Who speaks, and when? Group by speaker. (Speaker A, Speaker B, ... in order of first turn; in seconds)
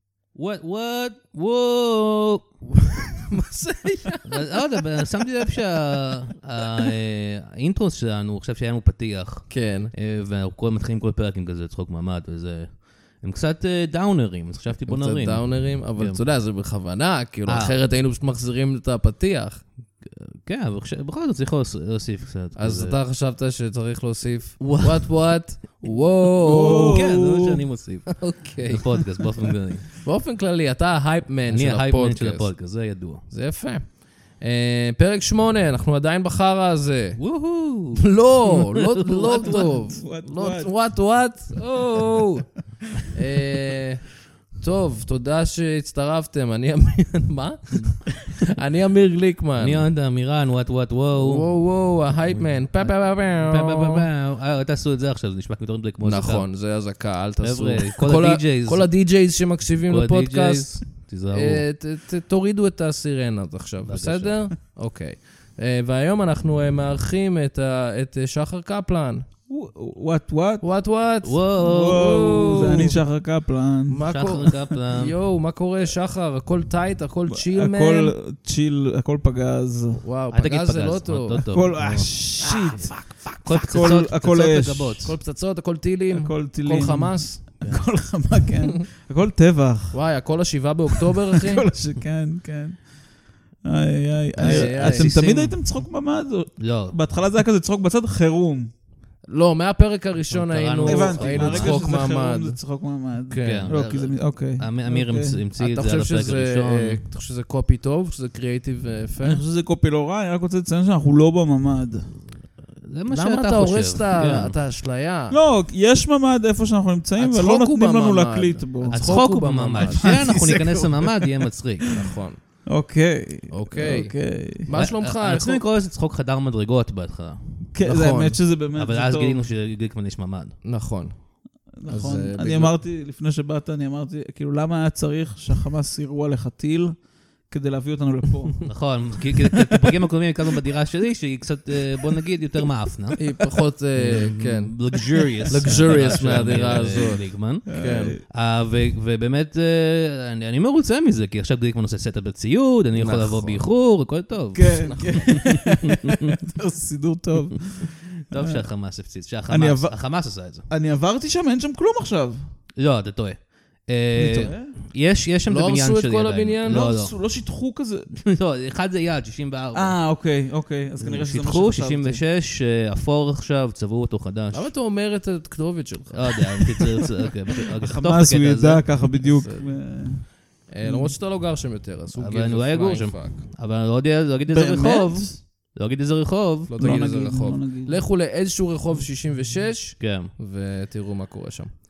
Speaker A: 0.3-2.5, 4.2-16.2, 17.5-17.8, 20.0-23.0, 24.6-25.1, 26.6-29.9, 31.5-33.2, 37.2-39.7, 49.6-51.5, 52.4-56.5, 57.4-58.9, 59.9-61.6, 63.9-64.4, 71.2-72.3, 74.1-75.2, 80.3-82.1, 83.4-85.2, 94.4-95.6, 96.6-97.0, 100.3-101.8, 103.4-107.0, 112.8-114.5, 118.9-122.0, 124.8-127.4, 128.8-130.6, 138.7-143.2, 144.0-147.7, 148.3-156.4, 157.4-160.7, 162.8-167.2, 168.1-170.0, 171.0-174.7, 176.1-178.8, 182.2-187.1, 190.0-190.3
Speaker B: 2.8-4.6, 9.5-9.9, 14.9-19.6, 22.6-27.0, 28.1-29.2, 30.0-32.5, 33.3-37.2, 38.0-44.1, 44.6-49.9, 51.2-54.1, 56.0-69.2, 70.6-73.0, 73.9-78.1, 80.0-81.5, 82.4-83.8, 85.0-87.4, 89.9-91.6, 94.4-95.1, 99.3-102.6, 103.3-103.8, 105.6-109.4, 113.1-115.4, 117.2-120.1, 121.9-122.4, 123.5-125.6, 127.8-128.4, 130.6-131.2, 131.9-132.7, 143.2-144.8, 145.5-148.1, 152.9-153.7, 154.8-155.3, 165.5-166.9, 174.5-176.7, 179.2-179.7, 180.7-183.4, 186.7-191.7
Speaker C: 26.5-27.6, 39.2-40.7, 69.5-70.7, 71.6-74.0, 77.3-80.0, 81.5-85.0, 86.1-90.0, 90.9-92.9, 93.6-98.7, 100.8-105.4, 109.2-112.1, 115.3-119.2, 119.8-122.1, 122.7-124.7, 127.7-129.4, 131.8-138.7, 147.7-148.2, 154.6-158.7, 159.5-162.4, 164.2-164.7, 166.7-168.1, 169.7-172.2, 177.8-180.3, 180.8-181.1, 184.5-185.4, 186.8-188.0